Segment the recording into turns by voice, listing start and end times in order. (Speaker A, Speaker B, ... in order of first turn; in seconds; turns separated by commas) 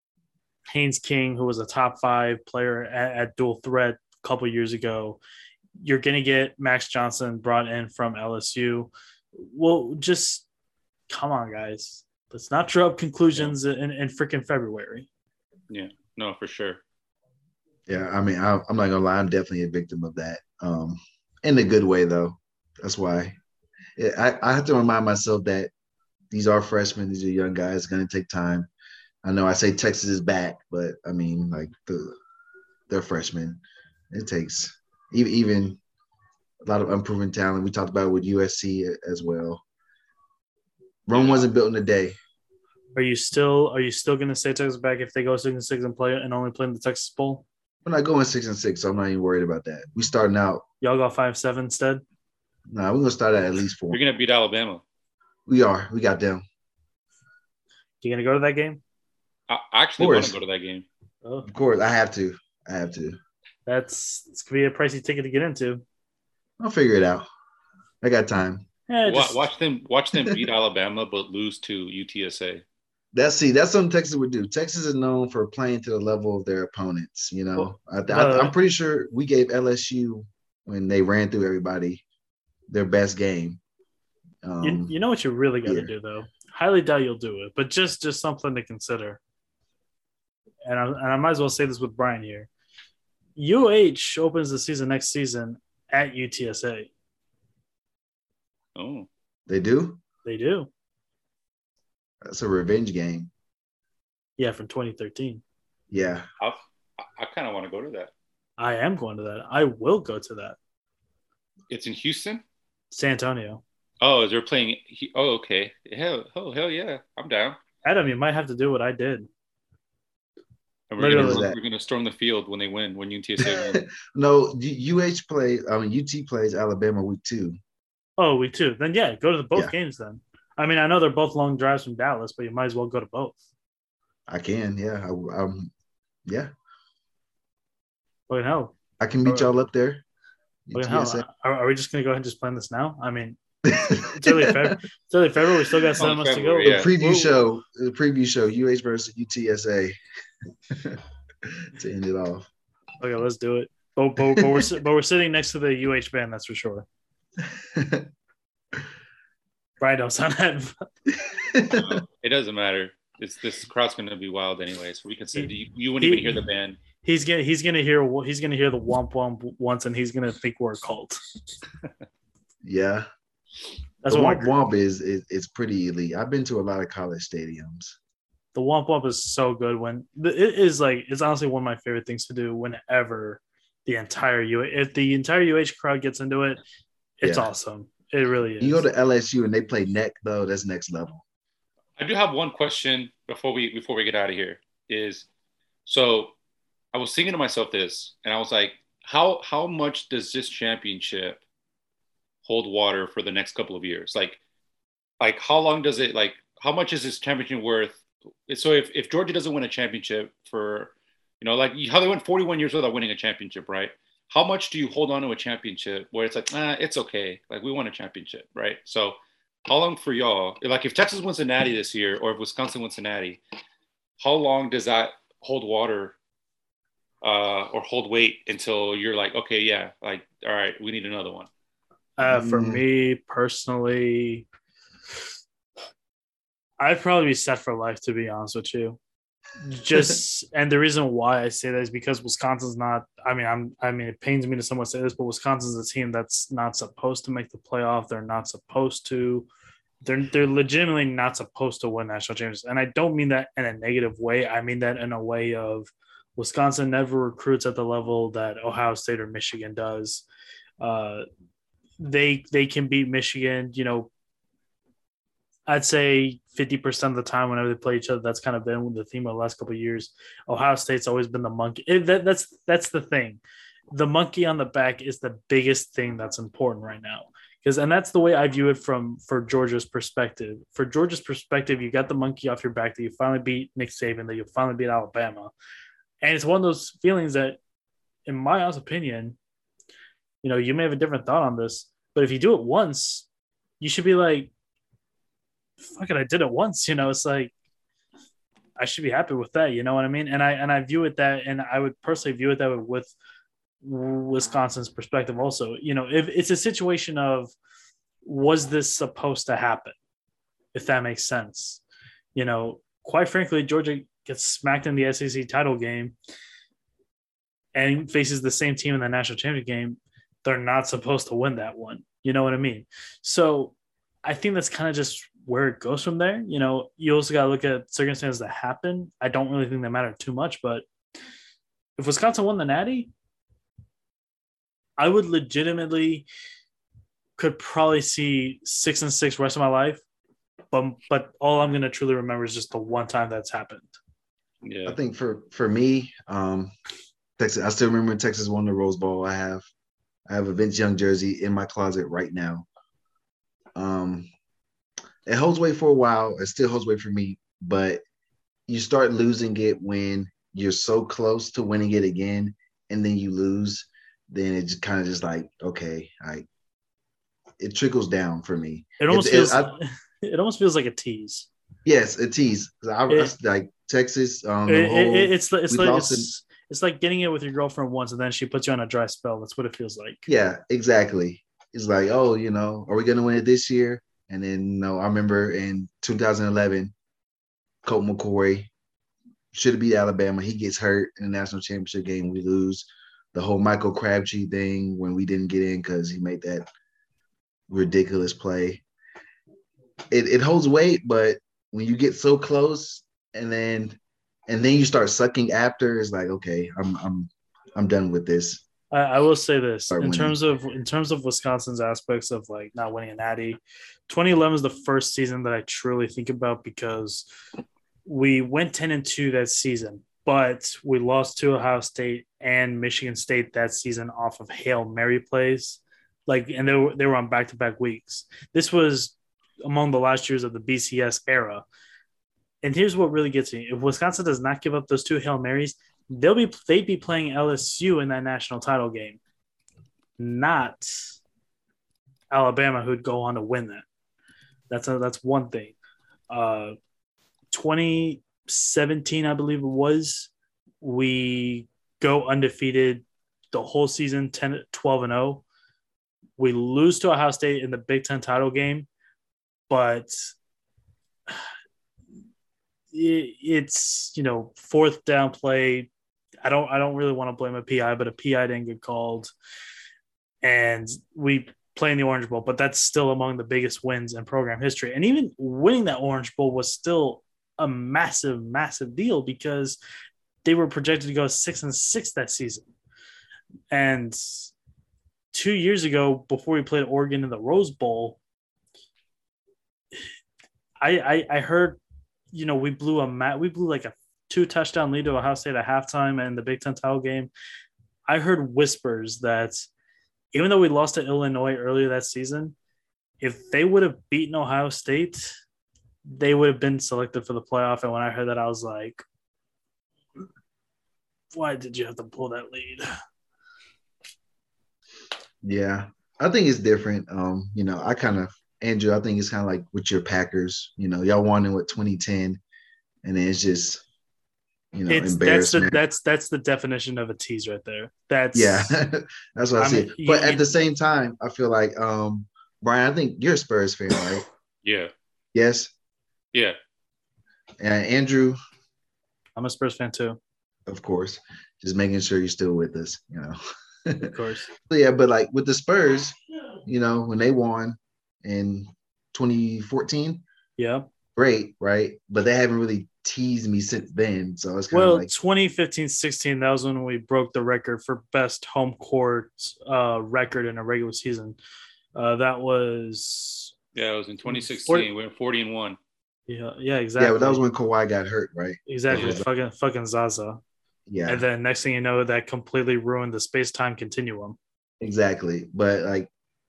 Speaker A: 0.7-5.2, Speaker A: 5.8-10.5, Speaker A: 11.1-15.1, Speaker B: 15.7-16.8, Speaker C: 17.9-23.4, Speaker C: 24.0-25.7, Speaker C: 26.3-28.7, Speaker C: 29.2-32.2, Speaker C: 32.9-35.8, Speaker C: 36.6-39.6, Speaker C: 41.1-42.2, Speaker B: 41.1-41.5, Speaker A: 43.0-47.5, Speaker C: 47.9-50.6, Speaker A: 50.8-52.0, Speaker C: 52.7-54.0, Speaker B: 53.9-54.8, Speaker C: 55.5-56.4, Speaker A: 58.0-58.8, Speaker B: 59.5-60.9, Speaker C: 60.0-60.4, Speaker C: 61.5-63.2, Speaker A: 63.7-65.8, Speaker C: 66.6-67.3, Speaker C: 68.0-68.7, Speaker A: 68.9-69.5, Speaker B: 69.0-72.6, Speaker C: 73.1-82.0, Speaker A: 77.6-78.5, Speaker C: 82.7-83.6, Speaker C: 84.4-84.9, Speaker A: 84.6-89.2, Speaker C: 85.6-85.9, Speaker A: 90.7-92.5, Speaker A: 93.4-96.9, Speaker B: 98.8-99.1, Speaker C: 99.5-100.0, Speaker A: 100.2-100.7, Speaker C: 102.2-103.3, Speaker A: 104.4-105.4, Speaker C: 105.9-106.3, Speaker B: 106.4-108.1, Speaker A: 108.6-110.6, Speaker B: 111.7-112.4, Speaker A: 112.9-113.6, Speaker B: 114.0-117.6, Speaker A: 117.8-119.3, Speaker B: 120.9-123.8, Speaker A: 121.0-121.5, Speaker C: 121.0-121.6, Speaker C: 123.4-127.6, Speaker A: 128.2-133.4, Speaker C: 134.3-135.7, Speaker C: 136.3-136.5, Speaker A: 138.3-139.5, Speaker C: 139.0-140.0, Speaker C: 140.7-141.2, Speaker A: 140.8-143.4, Speaker C: 143.7-144.7, Speaker A: 143.9-147.4, Speaker B: 146.0-146.9, Speaker C: 146.7-150.0, Speaker C: 150.7-152.5, Speaker A: 153.0-156.9, Speaker C: 154.4-154.6, Speaker C: 157.4-158.1, Speaker A: 159.8-160.8, Speaker C: 161.1-162.0, Speaker B: 161.7-166.8, Speaker A: 166.0-166.5, Speaker A: 167.0-171.2, Speaker C: 172.6-173.1, Speaker A: 174.0-174.5, Speaker C: 174.1-178.0, Speaker A: 178.6-186.6, Speaker A: 187.2-188.9, Speaker C: 187.2-187.5, Speaker C: 188.6-191.2, Speaker B: 192.0-195.3, Speaker B: 195.9-196.3, Speaker B: 196.9-201.4, Speaker B: 202.4-204.4, Speaker B: 205.2-223.4, Speaker B: 224.2-226.2, Speaker B: 227.2-231.5, Speaker A: 232.2-234.5, Speaker C: 232.3-232.8, Speaker A: 236.8-239.0, Speaker A: 239.6-249.5, Speaker A: 250.0-260.2, Speaker A: 260.8-261.2, Speaker A: 262.0-264.1, Speaker A: 265.7-273.4, Speaker A: 273.9-285.5, Speaker A: 286.2-287.6, Speaker A: 288.3-289.4, Speaker A: 290.4-293.3, Speaker A: 293.8-294.5, Speaker A: 295.8-297.5, Speaker A: 298.8-303.1, Speaker A: 303.8-307.5, Speaker A: 308.2-310.0, Speaker A: 310.8-311.8, Speaker A: 312.4-316.1, Speaker A: 317.8-323.7, Speaker A: 324.2-330.9, Speaker A: 332.0-333.1, Speaker A: 335.0-336.3, Speaker A: 337.4-340.0, Speaker A: 340.7-343.9, Speaker B: 344.6-345.0, Speaker C: 344.9-346.7, Speaker C: 347.4-349.7, Speaker C: 350.3-352.7, Speaker C: 353.8-354.3, Speaker C: 355.3-358.0, Speaker C: 358.7-366.5, Speaker C: 367.6-369.7, Speaker A: 369.0-371.5, Speaker C: 371.9-376.3, Speaker A: 374.7-380.3, Speaker C: 380.3-386.9, Speaker C: 387.8-388.7, Speaker C: 389.5-396.7, Speaker C: 397.7-398.8, Speaker C: 400.1-408.6, Speaker A: 408.9-417.3, Speaker C: 409.9-410.4, Speaker A: 418.1-431.6, Speaker A: 432.6-439.2, Speaker A: 440.2-440.9, Speaker A: 442.3-443.9, Speaker A: 444.7-445.8, Speaker A: 446.3-446.8, Speaker A: 447.5-455.4, Speaker A: 456.4-458.9, Speaker A: 459.7-460.2, Speaker A: 462.9-465.9, Speaker A: 466.4-469.3, Speaker A: 470.4-479.8, Speaker A: 480.4-482.7, Speaker A: 483.7-484.5, Speaker A: 485.3-488.2, Speaker A: 490.8-491.8, Speaker A: 492.3-497.3, Speaker A: 498.1-499.7, Speaker A: 500.3-502.6, Speaker A: 503.2-505.3, Speaker A: 506.1-509.0, Speaker A: 511.3-512.9, Speaker C: 515.4-522.4, Speaker C: 523.0-523.8, Speaker C: 524.7-525.8, Speaker A: 524.9-528.8, Speaker C: 528.3-534.2, Speaker A: 529.6-530.4, Speaker B: 534.6-534.9, Speaker C: 535.3-535.7, Speaker C: 537.6-538.4, Speaker A: 539.4-540.2, Speaker C: 540.7-544.1, Speaker A: 544.0-544.5, Speaker C: 544.7-546.1, Speaker C: 546.7-550.2, Speaker A: 550.6-550.9, Speaker C: 551.2-555.1, Speaker A: 554.7-561.4, Speaker A: 562.0-563.5, Speaker B: 563.8-565.8, Speaker A: 564.3-564.9, Speaker A: 566.3-567.4, Speaker C: 567.0-569.3, Speaker A: 568.7-570.4, Speaker C: 570.9-571.2, Speaker A: 571.1-574.4, Speaker C: 574.8-576.1